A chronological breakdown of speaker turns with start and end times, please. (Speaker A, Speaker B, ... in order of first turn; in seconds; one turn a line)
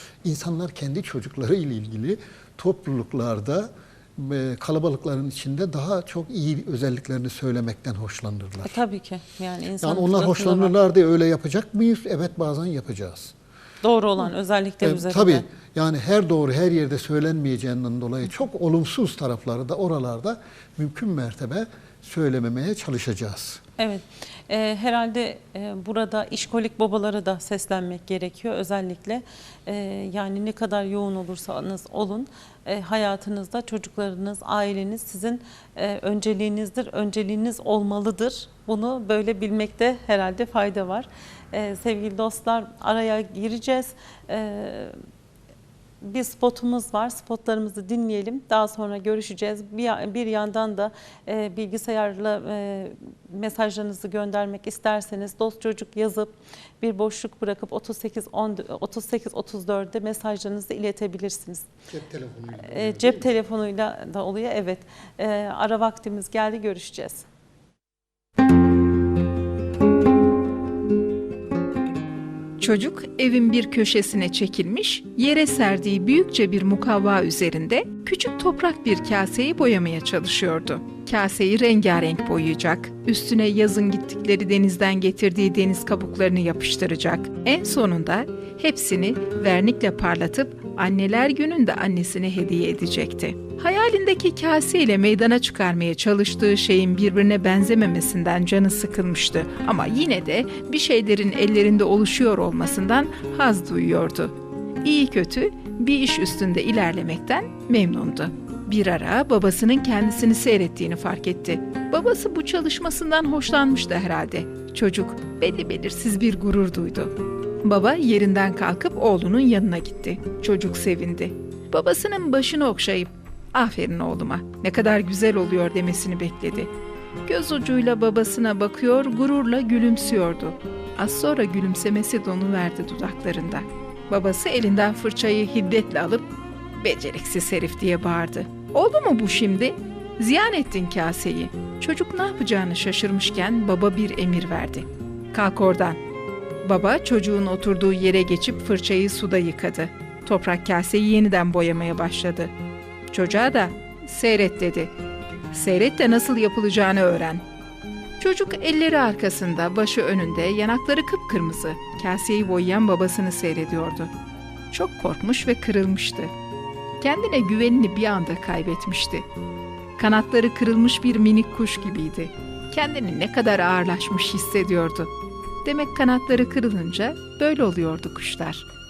Speaker A: 0.2-8.8
Speaker B: 8.6-10.8
Speaker A: 9.8-13.3
Speaker B: 13.8-15.5
Speaker A: 14.8-23.6
Speaker B: 23.8-45.0
Speaker B: 46.0-61.7
Speaker A: 61.9-63.3
Speaker B: 62.6-67.2
Speaker C: 72.6-117.1
Speaker C: 117.6-126.7
Speaker C: 127.3-146.0
Speaker C: 146.6-152.5
Speaker C: 153.1-154.9
Speaker C: 155.5-157.4
Speaker C: 158.2-164.1
Speaker C: 164.7-166.3
Speaker C: 167.0-169.3
Speaker C: 170.0-175.1
Speaker C: 175.6-178.7